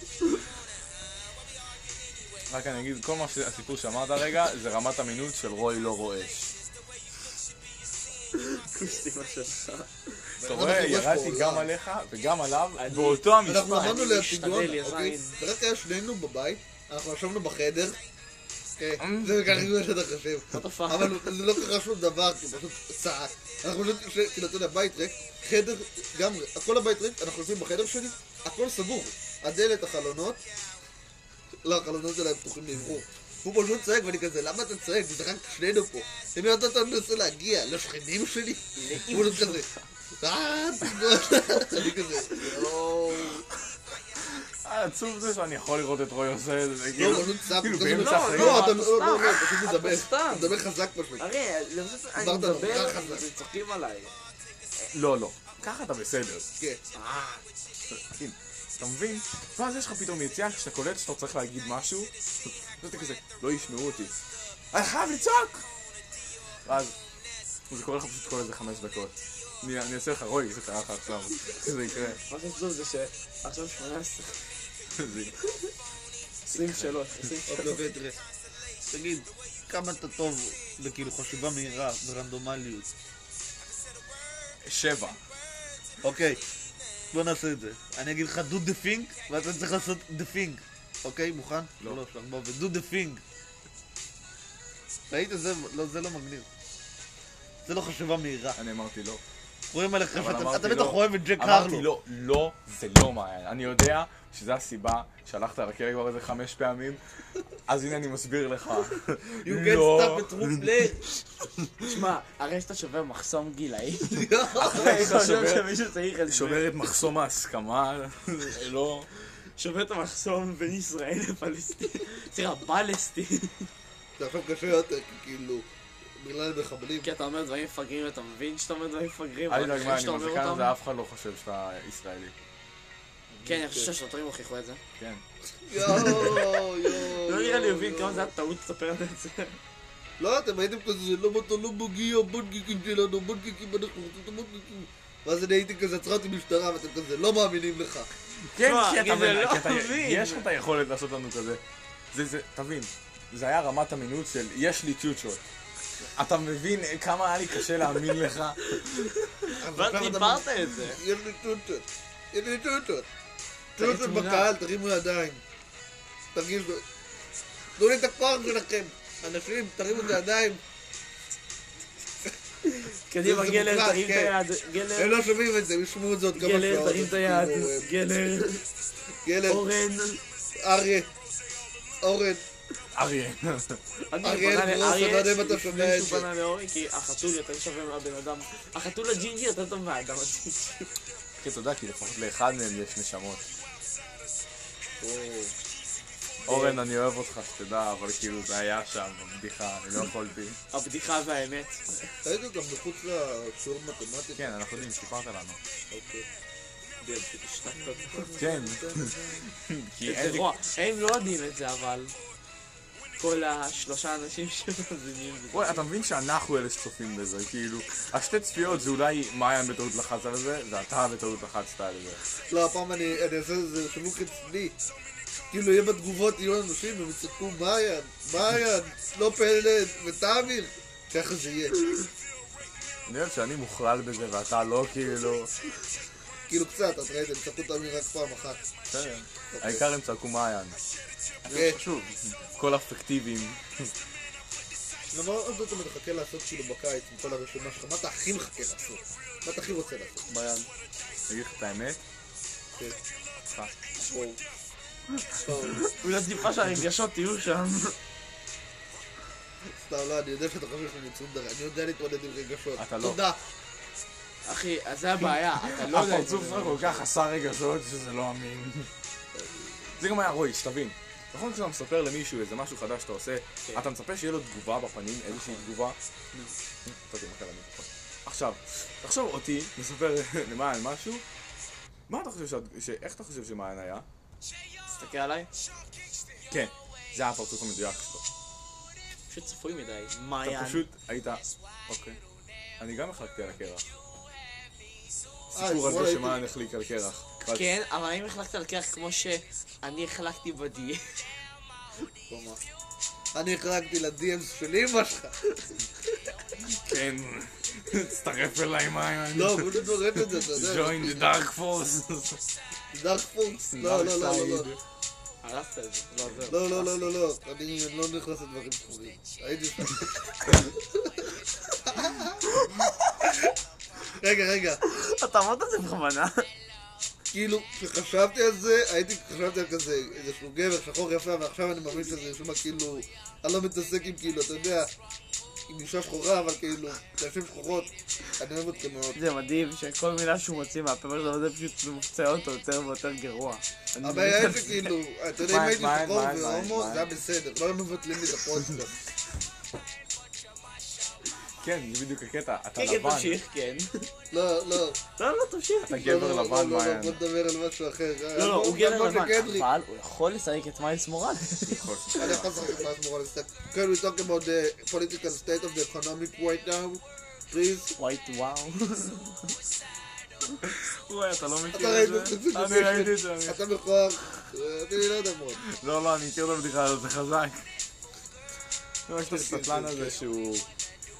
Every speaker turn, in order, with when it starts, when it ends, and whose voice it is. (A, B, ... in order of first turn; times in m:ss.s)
0:02.5-0:06.5 A
0:08.3-0:10.2 B
0:10.4-0:11.7 C
0:10.4-0:13.8 A
0:12.8-0:15.4 B
0:13.4-0:18.0 C
0:18.8-0:30.4 C
0:19.0-0:19.6 A
0:20.5-0:21.4 B
0:31.6-0:39.7 C
0:38.8-0:39.7 B
0:40.2-0:43.4 C
0:44.2-0:48.7 A
0:46.9-0:51.2 C
0:47.9-0:50.5 B
0:51.2-0:54.1 B
0:52.2-0:53.2 C
0:54.9-0:56.4 A
0:56.9-0:57.4 B
0:57.9-1:04.1 A
1:04.7-1:05.6 A
1:06.6-1:06.9 A
1:07.7-1:12.2 A
1:12.2-1:14.5 B
1:14.9-1:15.3 A
1:15.4-1:15.7 B
1:16.5-1:17.8 B
1:16.5-1:17.0 A
1:17.5-1:18.2 C
1:18.9-1:22.9 C
1:24.6-1:25.2 A
1:26.0-1:26.4 C
1:27.1-1:33.2 C
1:35.1-1:36.5 C
1:37.6-1:38.6 C
1:38.6-1:39.2 A
1:39.7-1:41.9 C
1:40.1-1:47.0 A
1:47.7-1:50.7 A
1:49.4-1:51.0 C
1:51.8-1:56.7 B
1:54.0-1:55.0 C
1:54.6-1:55.7 A
1:56.3-1:59.1 A
1:59.6-2:03.7 B
2:04.2-2:05.6 C
2:06.2-2:07.1 C
2:07.0-2:10.7 B
2:09.5-2:12.3 A
2:13.3-2:13.9 C
2:13.4-2:14.8 B
2:15.0-2:15.2 A
2:15.6-2:18.3 C
2:16.0-2:16.4 A
2:16.2-2:19.6 B
2:20.2-2:28.1 C
2:28.5-2:31.6 A
2:28.6-2:30.4 B
2:32.1-2:35.4 A
2:36.1-2:39.1 A
2:38.8-2:41.0 B
2:39.6-2:43.1 C
2:43.8-2:44.5 B
2:43.8-2:45.4 C
2:46.3-2:46.8 C
2:47.8-2:50.6 C
2:52.6-2:55.1 B
2:53.2-2:54.3 C
2:54.9-2:57.9 C
2:56.3-2:58.6 B
2:59.1-2:59.7 C
2:59.5-3:00.2 B
3:00.6-3:01.1 C
3:02.0-3:02.4 C
3:02.9-3:03.8 A
3:04.1-3:10.9 B
3:04.2-3:06.3 C
3:11.4-3:13.4 A
3:15.0-3:15.5 C
3:16.4-3:16.8 B
3:16.5-3:20.6 A
3:20.7-3:22.1 B
3:22.2-3:24.8 C
3:24.4-3:25.6 A
3:27.0-3:28.3 B
3:27.7-3:29.5 C
3:28.4-3:30.5 A
3:30.0-3:32.2 B
3:33.2-3:35.8 B
3:35.5-3:42.2 A
3:42.5-3:44.8 C
3:45.5-3:51.8 C
3:53.0-3:55.5 A
3:56.5-3:58.6 C
3:58.9-4:00.8 A
3:59.5-3:59.9 C
4:01.4-4:02.2 B
4:01.5-4:01.8 C
4:02.4-4:03.9 A
4:05.1-4:10.3 C
4:10.3-4:10.6 B
4:11.3-4:12.0 A
4:14.0-4:14.4 C
4:15.3-4:15.9 C
4:15.7-4:17.9 B
4:19.6-4:23.4 C
4:22.8-4:23.2 A
4:24.4-4:27.0 B
4:25.2-4:28.9 A
4:29.3-4:29.9 C
4:30.0-4:36.0 A
4:35.3-4:35.7 B
4:36.8-4:41.2 A
4:42.1-4:44.0 A
4:45.0-4:45.5 B
4:46.5-4:48.2 A
4:49.3-4:50.8 B
4:50.4-4:52.2 A
4:52.8-4:53.8 A
4:55.5-4:56.4 C
4:55.5-4:57.6 A
4:57.4-5:01.2 B
5:02.3-5:02.6 C
5:03.3-5:05.4 C
5:06.6-5:12.4 A
5:09.3-5:11.3 C
5:12.9-5:14.7 C
5:13.7-5:14.8 A
5:15.4-5:16.9 B
5:16.5-5:22.5 C
5:22.6-5:22.9 B
5:23.2-5:23.5 C
5:24.0-5:24.8 C
5:24.8-5:26.5 B
5:27.3-5:34.9 C
5:35.7-5:39.2 C
5:39.1-5:43.6 B
5:44.0-5:44.8 A
5:44.0-5:48.9 C
5:45.4-5:47.1 A
5:51.6-5:53.4 A
5:52.8-5:54.1 B
5:54.3-5:55.0 C
5:55.2-5:56.0 B
5:55.8-5:57.2 A
5:55.9-5:59.7 C
5:58.3-6:01.9 B
6:01.7-6:02.6 A
6:02.2-6:07.9 C
6:08.0-6:09.5 B
6:10.5-6:12.4 B
6:11.7-6:15.6 C
6:12.4-6:13.6 A
6:15.6-6:17.6 A
6:19.1-6:20.6 A
6:19.2-6:20.2 C